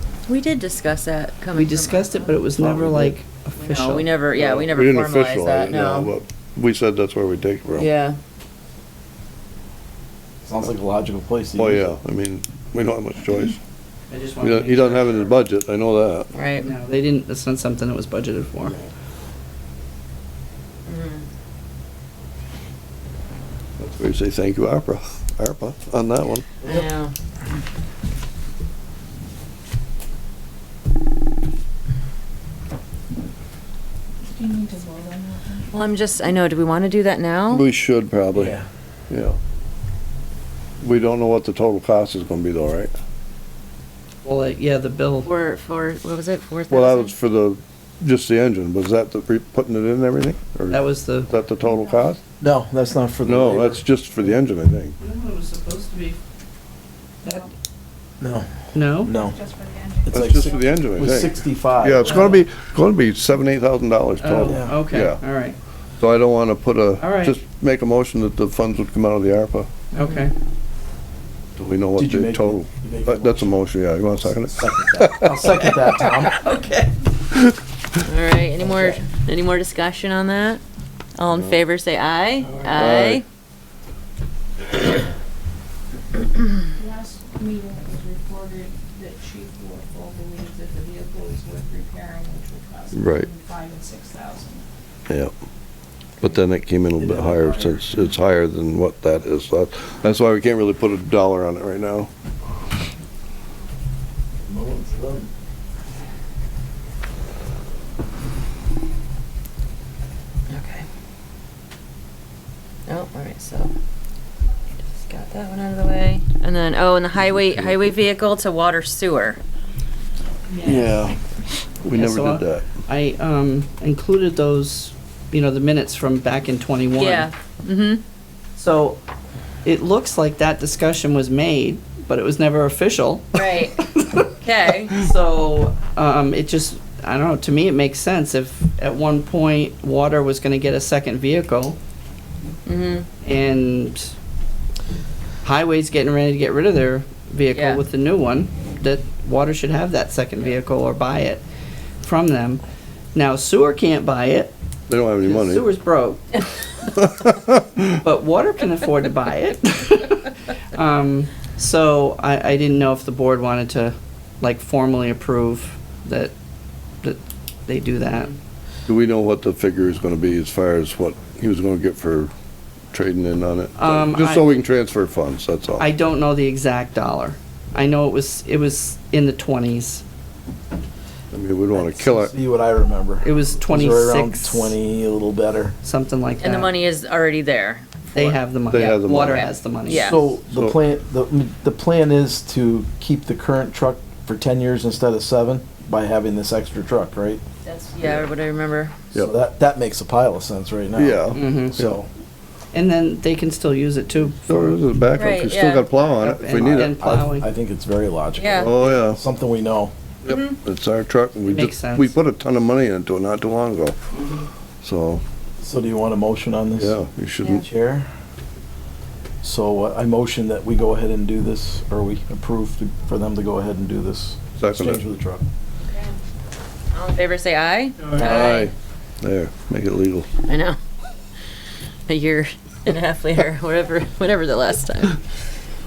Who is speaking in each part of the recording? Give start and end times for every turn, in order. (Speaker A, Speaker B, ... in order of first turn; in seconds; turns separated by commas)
Speaker A: 0.3-2.4, Speaker B: 1.6-4.0, Speaker C: 2.6-3.1, Speaker A: 3.6-6.1, Speaker C: 4.3-7.8, Speaker A: 7.8-8.2, Speaker D: 10.4-12.0, Speaker C: 11.6-13.6, Speaker B: 14.1-15.4, Speaker C: 14.4-16.3, Speaker A: 16.3-16.7, Speaker B: 16.6-18.8, Speaker A: 20.9-21.2, Speaker C: 23.8-26.6, Speaker A: 26.6-27.1, Speaker E: 34.2-35.7, Speaker A: 35.7-37.7, Speaker C: 37.5-38.5, Speaker D: 38.3-38.6, Speaker C: 39.1-39.4, Speaker C: 40.8-42.9, Speaker B: 44.2-45.3, Speaker A: 45.2-47.1, Speaker C: 46.7-52.2, Speaker B: 50.7-51.3, Speaker D: 52.4-53.8, Speaker C: 53.2-55.0, Speaker B: 55.0-56.2, Speaker B: 57.2-57.5, Speaker D: 58.2-58.5, Speaker B: 58.7-59.1, Speaker D: 59.0-59.4, Speaker E: 59.4-60.7, Speaker D: 60.0-62.3, Speaker C: 60.1-65.2, Speaker B: 62.0-62.4, Speaker B: 64.2-65.6, Speaker D: 64.5-64.8, Speaker C: 66.0-69.7, Speaker B: 67.0-67.3, Speaker B: 69.9-70.3, Speaker C: 71.5-75.4, Speaker D: 72.0-73.5, Speaker D: 74.2-76.3, Speaker B: 75.6-76.9, Speaker A: 78.0-80.6, Speaker D: 78.6-79.0, Speaker A: 81.2-83.2, Speaker C: 82.7-83.2, Speaker E: 86.8-94.6, Speaker C: 92.9-93.3, Speaker C: 95.1-95.3, Speaker C: 96.2-102.1, Speaker D: 97.0-97.8, Speaker D: 104.4-105.3, Speaker A: 110.5-110.8, Speaker A: 112.9-113.7, Speaker A: 114.9-119.4, Speaker E: 120.5-121.0, Speaker C: 120.7-121.1, Speaker C: 121.8-122.7, Speaker B: 121.9-127.3, Speaker A: 127.0-128.0, Speaker B: 128.6-129.0, Speaker B: 129.6-134.3, Speaker A: 133.3-133.8, Speaker A: 134.4-135.0, Speaker B: 134.9-141.8, Speaker A: 142.7-143.1, Speaker B: 143.2-144.1, Speaker B: 145.4-151.4, Speaker A: 147.5-147.8, Speaker B: 152.0-152.6, Speaker B: 153.1-154.5, Speaker C: 154.9-155.6, Speaker B: 155.2-156.4, Speaker C: 157.0-157.8, Speaker B: 157.9-166.3, Speaker B: 167.0-168.3, Speaker C: 168.9-172.3, Speaker C: 172.9-175.8, Speaker B: 173.8-174.6, Speaker B: 175.8-180.0, Speaker C: 181.3-182.3, Speaker D: 181.7-185.7, Speaker B: 183.2-184.7, Speaker B: 185.8-186.7, Speaker A: 186.4-188.4, Speaker B: 188.1-190.3, Speaker C: 188.7-189.4, Speaker A: 189.2-190.3, Speaker D: 189.9-197.4, Speaker C: 190.5-190.8, Speaker A: 197.6-199.0, Speaker D: 199.1-202.1, Speaker C: 200.9-201.9, Speaker B: 201.3-201.8, Speaker B: 202.7-204.8, Speaker C: 204.5-206.9, Speaker A: 205.1-205.9, Speaker B: 206.2-207.5, Speaker D: 206.6-209.9, Speaker A: 208.4-208.8, Speaker C: 208.7-209.2, Speaker C: 210.2-214.0, Speaker A: 210.2-210.6, Speaker B: 211.5-212.1, Speaker C: 214.8-215.2, Speaker D: 215.6-217.0, Speaker C: 216.8-217.6, Speaker D: 217.5-218.1, Speaker D: 219.4-225.4, Speaker C: 224.6-225.0, Speaker A: 225.8-226.1, Speaker A: 226.9-228.7, Speaker C: 228.0-230.3, Speaker D: 228.2-228.4, Speaker A: 230.4-230.8, Speaker A: 232.1-235.2